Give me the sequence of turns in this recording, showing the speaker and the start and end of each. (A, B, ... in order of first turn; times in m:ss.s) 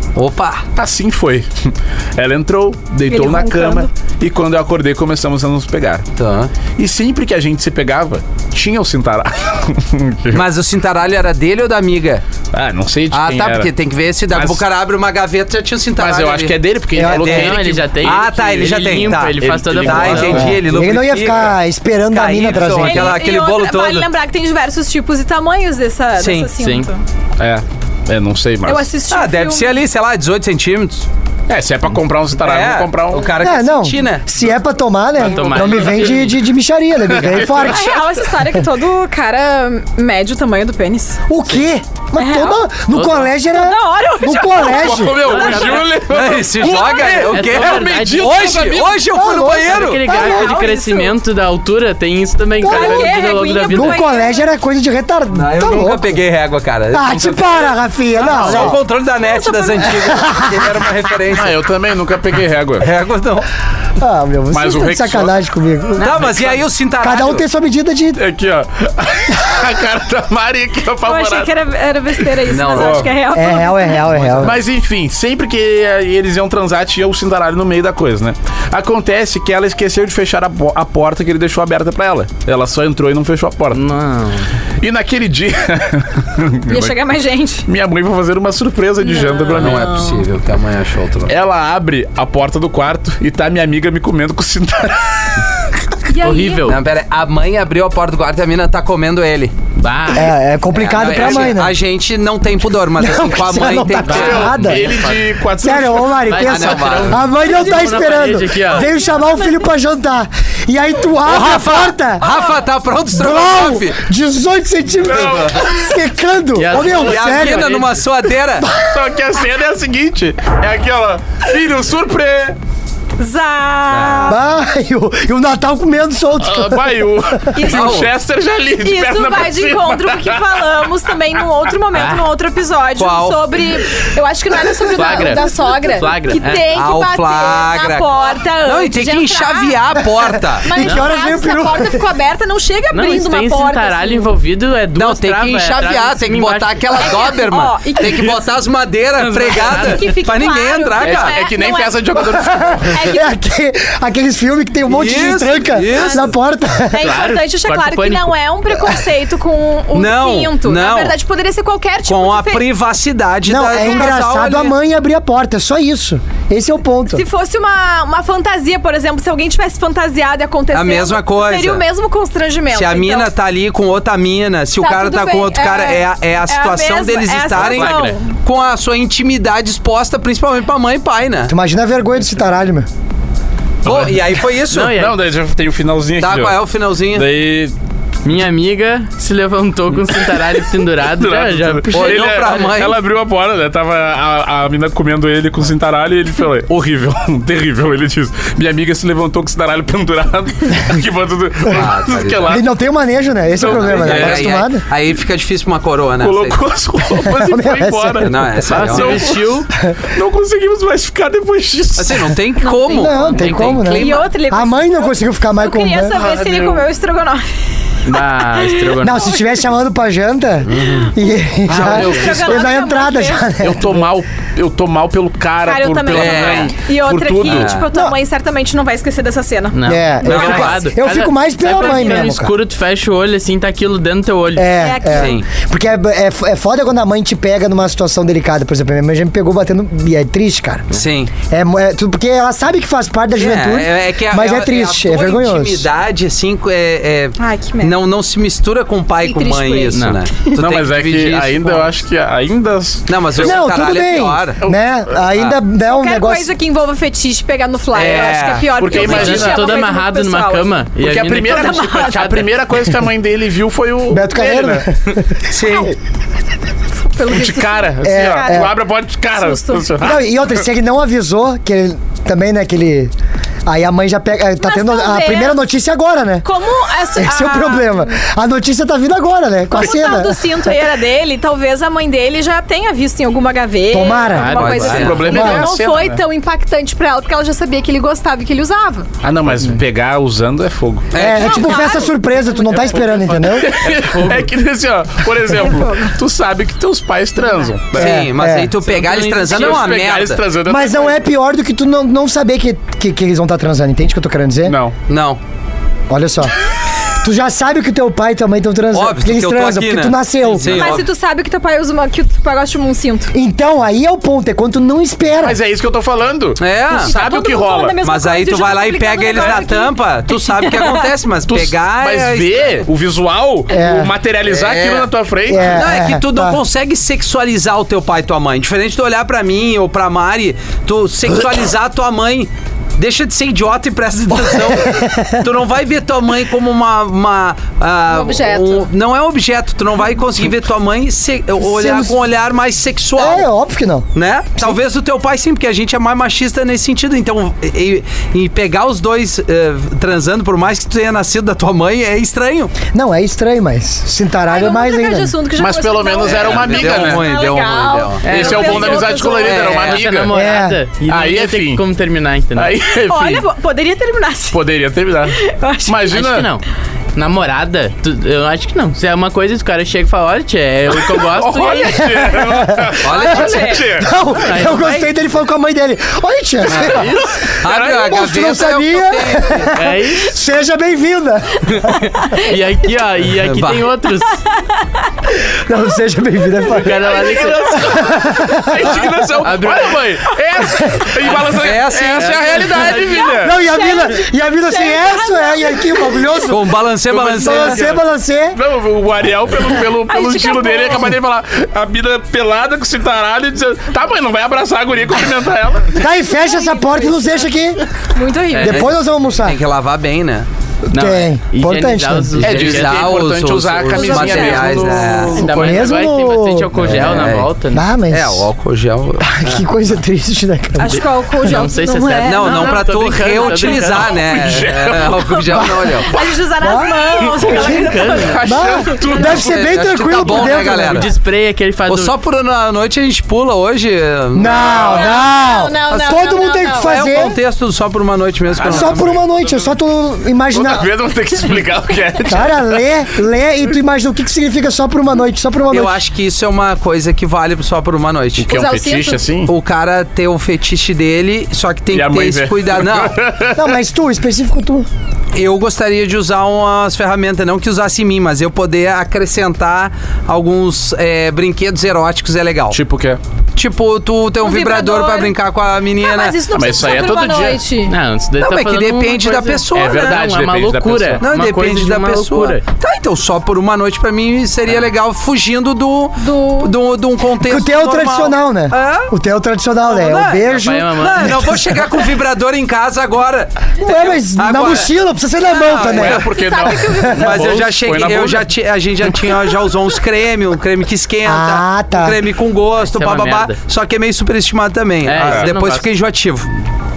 0:00.1-0:00.6 A
0:00.8-0:06.1 B
0:03.1-0:03.9 C
0:06.2-0:06.5 A
0:06.8-0:10.5 B
0:10.3-0:12.2 A
0:12.5-0:13.7 B
0:13.1-0:21.6 A
0:14.3-0:14.6 B
0:16.0-0:18.3 B
0:17.0-0:17.3 D
0:17.2-0:20.5 E
0:19.0-0:20.8 B
0:20.3-0:23.2 D
0:22.1-0:24.1 A
0:22.8-0:27.0 C
0:26.2-0:26.5 A
0:26.6-0:26.9 E
0:27.4-0:28.9 B
0:28.6-0:29.8 C
0:29.1-0:31.1 A
0:31.5-0:33.3 B
0:32.4-0:34.2 A
0:33.4-0:37.9 D
0:35.2-0:36.4 E
0:37.1-0:38.2 B
0:37.6-0:41.2 C
0:41.3-0:45.2 D
0:42.2-0:42.6 C
0:42.9-0:43.3 E
0:43.5-0:46.0 C
0:44.5-0:49.0 B
0:45.2-0:45.8 E
0:46.0-0:50.1 A
0:47.0-0:48.5 E
0:49.1-0:50.6 D
0:49.4-0:54.0 E
0:50.0-0:51.1 C
0:52.6-0:53.1 D
0:52.6-0:54.4 C
0:53.7-0:56.2 D
0:55.3-1:01.6 A
0:56.9-0:58.8 D
0:58.3-0:58.7 B
0:59.2-1:00.0 C
1:00.0-1:00.8 D
1:01.3-1:02.9 B
1:02.8-1:03.5 A
1:04.0-1:06.3 D
1:04.5-1:05.4 B
1:06.0-1:07.4 A
1:07.0-1:08.2 D
1:08.2-1:11.5 B
1:11.0-1:14.1 C
1:12.2-1:13.1 B
1:12.5-1:13.1 A
1:13.3-1:14.6 D
1:14.1-1:14.5 A
1:14.4-1:23.8 B
1:23.7-1:24.5 E
1:24.8-1:27.0 B
1:26.7-1:27.7 C
1:27.6-1:29.9 B
1:29.0-1:30.2 C
1:29.5-1:31.3 A
1:31.3-1:35.7 B
1:36.1-1:36.8 C
1:36.2-1:36.8 E
1:36.6-1:39.5 A
1:39.8-1:40.3 E
1:40.1-1:41.8 D
1:40.7-1:44.5 A
1:41.0-1:41.6 B
1:43.0-1:45.0 D
1:44.0-1:45.2 E
1:44.0-1:46.4 B
1:45.6-1:52.4 D
1:46.2-1:48.9 E
1:46.4-1:47.3 A
1:48.8-1:49.3 C
1:51.2-1:54.0 A
1:53.1-1:57.8 D
1:55.0-1:55.8 B
1:55.2-1:55.6 A
1:56.6-1:58.0 E
1:56.7-1:58.7 A
1:58.6-1:58.9 D
1:58.8-2:02.6 B
2:03.2-2:04.4 C
2:03.9-2:04.4 A
2:04.3-2:07.1 D
2:06.4-2:10.9 B
2:07.5-2:08.0 C
2:07.6-2:08.1 A
2:08.8-2:19.8 C
2:11.9-2:12.3 E
2:13.0-2:13.6 A
2:14.9-2:16.8 E
2:16.7-2:20.7 A
2:20.1-2:22.1 D
2:20.6-2:24.3 C
2:20.8-2:21.1 E
2:22.9-2:27.4 E
2:25.0-2:31.4 A
2:27.0-2:28.4 C
2:28.0-2:28.3 E
2:29.2-2:30.1 E
2:29.6-2:32.2 C
2:31.0-2:33.1 B
2:32.3-2:37.1 D
2:32.9-2:33.3 C
2:34.9-2:36.3 A
2:35.9-2:36.3 C
2:36.9-2:42.7 C
2:37.0-2:38.3 E
2:38.7-2:39.0 D
2:39.9-2:41.2 A
2:42.0-2:44.7 A
2:43.4-2:47.2 D
2:43.7-2:44.1 C
2:47.1-2:53.3 C
2:50.7-2:51.9 A
2:52.7-3:01.5 A
2:54.8-2:58.4 C
2:57.5-2:58.2 E
3:01.5-3:02.9 D
3:03.8-3:05.0 A
3:03.8-3:07.7 B
3:04.7-3:05.2 E
3:06.2-3:07.3 A
3:08.2-3:12.7 E
3:10.2-3:22.7 B
3:11.9-3:13.0 A
3:21.7-3:22.6 A
3:22.5-3:24.8 D
3:23.6-3:24.6 B
3:23.6-3:26.6 A
3:26.2-3:32.3 B
3:27.2-3:28.8 D
3:28.2-3:29.3 A
3:28.6-3:29.7 E
3:32.0-3:34.3 A
3:32.6-3:33.4 C
3:32.9-3:36.2 D
3:33.2-3:34.0 E
3:33.9-3:37.4 C
3:36.1-3:36.9 B
3:38.0-3:39.4 E
3:38.1-3:39.4 C
3:39.0-3:44.1 D
3:40.7-3:41.1 A
3:41.7-3:42.6 A
3:41.7-3:43.5 C
3:41.9-3:42.4 B
3:43.6-3:47.8 B
3:45.6-3:50.8 C
3:46.1-3:46.7 A
3:47.4-3:47.9 A
3:49.7-3:54.9 E
3:49.8-3:52.5 D
3:50.2-3:50.8 A
3:51.8-3:52.2 C
3:54.6-4:00.8 D
3:54.8-3:55.4 C
3:55.1-3:55.4 A
4:00.9-4:01.3 A
4:01.5-4:05.9 D
4:03.4-4:11.9 A
4:07.4-4:08.0 C
4:09.2-4:10.6 C
4:09.9-4:10.2 E
4:10.6-4:13.6 B
4:13.1-4:14.6 A
4:13.4-4:16.5 D
4:14.6-4:15.6 B
4:15.8-4:20.8 C
4:17.9-4:18.7 A
4:18.8-4:19.8 B
4:18.9-4:22.4 E
4:21.0-4:24.9 B
4:21.4-4:22.3 C
4:24.1-4:25.9 D
4:25.5-4:26.0 A
4:27.0-4:28.7 C
4:27.3-4:30.5 B
4:28.0-4:28.7 D
4:29.3-4:30.0 C
4:30.0-4:33.1 D
4:33.7-4:36.5 D
4:34.6-4:35.6 C
4:36.4-4:38.1 C
4:37.2-4:40.4 D
4:39.7-4:49.1 C
4:39.8-4:40.1 B
4:43.9-4:44.6 D
4:44.3-4:45.2 E
4:44.5-4:45.3 A
4:44.6-4:46.2 B
4:45.2-4:45.7 D
4:49.2-4:51.1 B
4:51.1-4:51.8 A
4:51.2-4:53.7 D
4:51.2-4:52.1 C
4:52.6-4:54.5 E
4:53.5-4:58.2 B
4:55.5-4:56.2 C
4:57.9-5:00.4 A
4:58.0-4:58.7 D
4:58.8-5:01.3 B
4:59.6-4:59.9 E
5:00.7-5:04.8 D
5:04.7-5:05.0 B
5:05.1-5:05.4 A
5:06.1-5:06.5 D
5:07.2-5:11.0 D
5:08.9-5:11.1 A
5:10.6-5:10.9 B
5:10.7-5:13.3 C
5:13.3-5:15.6 D
5:15.4-5:18.0 B
5:16.6-5:17.1 A
5:16.9-5:21.1 C
5:18.0-5:22.9 A
5:21.5-5:25.8 B
5:23.7-5:24.1 D
5:24.4-5:25.1 A
5:25.5-5:26.6 D
5:25.6-5:43.5 A
5:34.3-5:35.4 D
5:38.1-5:38.9 C
5:41.6-5:42.2 D
5:43.2-5:44.8 D
5:44.1-5:52.7 A
5:52.9-5:55.4 D
5:54.5-5:59.8 C
5:55.6-5:57.3 B
5:56.2-6:00.0 A
5:58.2-6:02.8 E
5:58.3-6:00.3 B
6:00.3-6:00.8 D
6:01.1-6:01.8 B
6:02.6-6:03.5 B
6:03.1-6:04.6 C
6:04.5-6:06.5 B
6:05.3-6:06.2 C
6:06.1-6:06.6 E
6:07.1-6:12.0 E
6:11.0-6:14.1 B
6:11.9-6:17.4 D
6:13.0-6:13.8 A
6:13.1-6:13.9 C
6:14.4-6:15.2 E
6:16.7-6:19.7 A
6:16.8-6:17.4 E
6:16.8-6:18.1 B
6:18.1-6:22.1 D
6:19.7-6:20.4 E
6:21.7-6:24.4 E
6:23.4-6:23.9 A
6:25.7-6:27.1 D
6:26.7-6:27.8 E
6:27.0-6:33.6 B
6:27.8-6:29.3 D
6:29.4-6:30.0 E
6:31.2-6:33.0 A
6:32.3-6:32.9 E
6:32.7-6:36.6 C
6:33.4-6:36.7 D
6:36.5-6:37.8 A
6:37.1-6:46.0 B
6:37.4-6:38.6 D
6:39.8-6:41.2 C
6:46.0-6:47.8 D
6:46.3-6:47.5 C
6:48.1-6:48.9 C
6:48.5-6:48.8 E
6:48.6-6:49.6 D
6:48.6-6:50.5 A
6:50.9-6:52.4 D
6:50.9-6:53.1 E
6:52.4-6:55.9 B
6:52.4-6:55.4 A
6:53.9-6:55.1 C
6:55.0-6:57.9 E
6:55.3-6:57.2 D
6:56.8-6:57.5 A
6:57.7-6:58.5 D
6:58.1-6:59.6 A
6:59.2-7:01.1 D
7:00.8-7:02.9 C
7:00.9-7:04.2 E
7:02.2-7:06.1 A
7:03.4-7:03.7 C
7:03.6-7:10.0 B
7:06.0-7:09.2 C
7:06.6-7:07.8 D
7:07.4-7:08.4 E
7:08.4-7:11.1 D
7:09.2-7:11.1 A
7:10.3-7:12.1 E
7:11.9-7:15.2 A
7:14.3-7:17.4 D
7:14.6-7:15.1 B
7:14.9-7:17.3 C
7:15.9-7:19.2 A
7:18.5-7:19.7 B
7:18.6-7:20.9 D
7:20.5-7:22.9 B
7:22.3-7:26.0 D
7:25.7-7:28.5 A
7:28.4-7:29.5 B
7:28.5-7:29.2 C
7:29.4-7:33.2 A
7:31.9-7:33.8 B
7:33.5-7:34.9 D
7:35.3-7:42.8 A
7:42.7-7:43.2 B
7:43.6-7:46.4 A
7:44.4-7:45.4 C
7:46.0-7:48.0 C
7:46.5-7:47.6 B
7:47.9-7:52.6 E
7:48.4-7:50.2 A
7:49.7-7:51.3 B
7:51.2-7:59.1 A
7:56.2-7:56.7 C
7:57.4-8:01.9 D
7:59.8-8:04.9 A
8:00.4-8:01.5 E
8:03.8-8:06.2 D
8:05.4-8:06.4 A
8:05.5-8:07.6 C
8:05.9-8:08.5 B
8:06.9-8:07.3 D
8:07.1-8:16.5 A
8:07.4-8:07.7 E
8:09.0-8:09.4 B
8:11.2-8:12.2 D
8:12.9-8:13.6 E
8:15.0-8:15.9 E
8:15.2-8:15.5 B